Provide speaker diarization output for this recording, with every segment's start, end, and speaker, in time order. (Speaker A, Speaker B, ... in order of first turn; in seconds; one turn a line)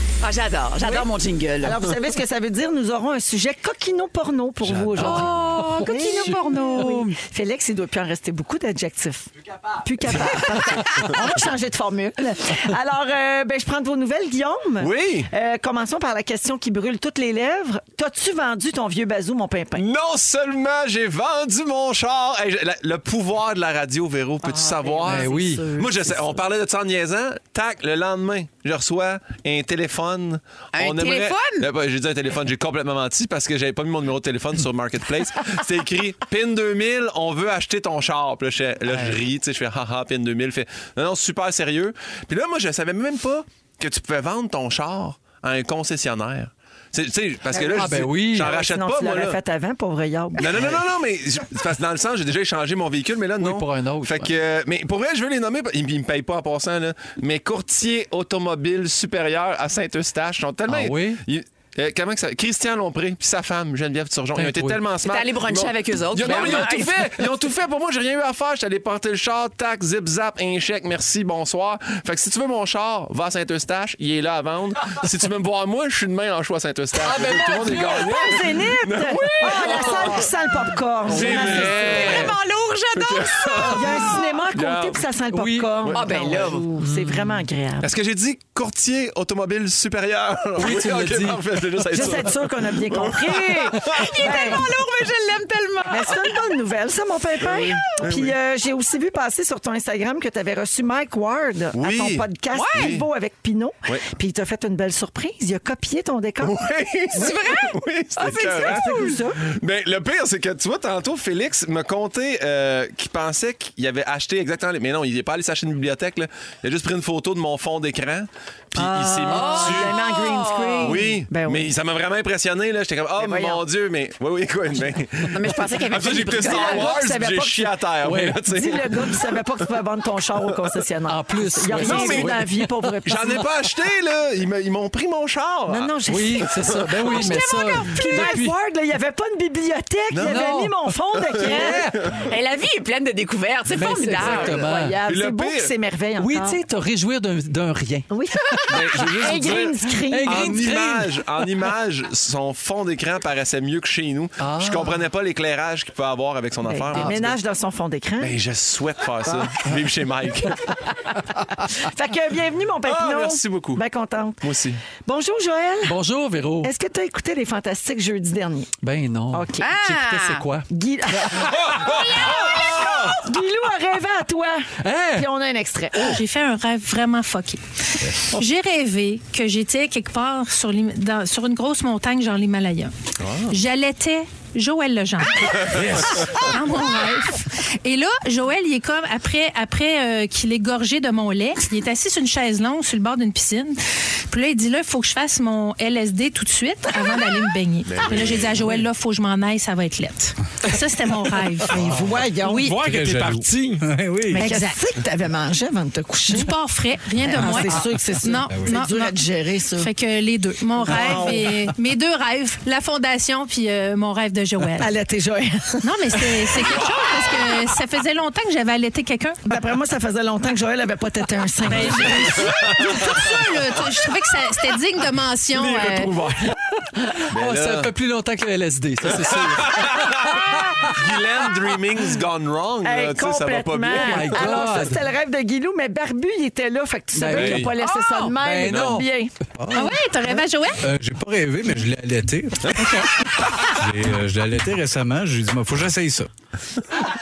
Speaker A: 0.2-1.9
Speaker B: 0.8-1.1
Speaker B: 1.6-19.8
Speaker C: 5.0-7.0
Speaker A: 5.0-7.1
Speaker D: 14.8-15.3
Speaker D: 19.8-49.4
Speaker B: 24.4-26.4
Speaker C: 25.1-25.7
Speaker A: 30.7-31.7
Speaker B: 47.5-50.6
Speaker C: 47.7-48.5
Speaker D: 50.4-80.2
Speaker C: 53.4-54.3
Speaker C: 60.7-61.2
Speaker C: 64.3-64.8
Speaker A: 65.0-67.0
Speaker C: 66.2-67.2
Speaker C: 77.0-78.3
Speaker B: 77.7-82.3
Speaker C: 79.4-80.2
Speaker C: 81.0-82.3
Speaker D: 81.1-82.3
Speaker A: 81.2-83.8
Speaker D: 82.9-85.0
Speaker B: 83.6-87.9
Speaker C: 85.3-85.7
Speaker D: 85.8-86.4
Speaker A: 85.9-86.7
Speaker C: 86.8-87.4
Speaker D: 87.8-94.2
Speaker C: 90.6-92.2
Speaker B: 91.9-94.7
Speaker A: 93.9-96.3
Speaker B: 95.8-106.6
Speaker D: 97.4-98.3
Speaker D: 101.8-103.0
Speaker A: 102.5-103.0
Speaker D: 106.4-120.0
Speaker A: 107.1-109.1
Speaker B: 108.2-109.4
Speaker B: 118.8-121.7
Speaker A: 119.3-121.0
Speaker D: 120.8-129.4
Speaker A: 123.2-123.6
Speaker A: 125.3-127.0
Speaker B: 126.2-133.5
Speaker C: 128.0-128.4
Speaker C: 131.1-132.9
Speaker D: 131.8-132.4
Speaker D: 133.0-135.9
Speaker B: 135.7-141.9
Speaker C: 136.1-138.5
Speaker A: 137.1-138.0
Speaker D: 140.1-140.4
Speaker C: 140.2-140.7
Speaker D: 141.2-142.2
Speaker C: 141.4-142.1
Speaker A: 142.2-144.6
Speaker C: 143.7-145.0
Speaker B: 144.1-146.6
Speaker D: 145.0-145.7
Speaker C: 146.2-151.4
Speaker B: 148.1-150.6
Speaker D: 148.7-157.3
Speaker C: 154.4-155.0
Speaker B: 156.6-158.4
Speaker C: 156.9-157.2
Speaker D: 158.2-160.9
Speaker B: 161.6-166.0
Speaker D: 162.8-163.8
Speaker D: 164.4-164.8
Speaker C: 165.8-166.7
Speaker B: 166.6-168.7
Speaker C: 168.8-171.9
Speaker B: 169.3-169.7
Speaker A: 169.6-170.4
Speaker B: 170.7-176.2
Speaker D: 171.5-173.2
Speaker C: 174.8-175.3
Speaker E: 176.0-182.9
Speaker D: 183.2-183.5
Speaker E: 183.5-202.0
Speaker C: 185.5-186.4
Speaker D: 197.8-198.7
Speaker B: 201.7-202.8
Speaker D: 202.6-203.8
Speaker F: 202.7-204.5
Speaker B: 204.3-206.5
Speaker E: 204.3-204.9
Speaker E: 206.3-214.9
Speaker B: 207.3-209.9
Speaker B: 210.8-211.6
Speaker B: 214.8-216.7
Speaker E: 215.8-219.4
Speaker B: 219.4-222.7
Speaker E: 221.7-226.3
Speaker D: 222.4-223.3
Speaker C: 225.6-231.0
Speaker D: 227.3-227.9
Speaker D: 229.1-234.8
Speaker B: 232.8-239.3
Speaker C: 233.9-235.1
Speaker C: 237.1-237.7
Speaker D: 237.3-237.7
Speaker A: 237.8-238.3
Speaker C: 238.4-239.1
Speaker D: 238.7-239.0
Speaker F: 239.6-240.0
Speaker E: 239.7-240.8
Speaker F: 240.8-243.1
Speaker D: 242.6-243.7
Speaker F: 243.7-246.3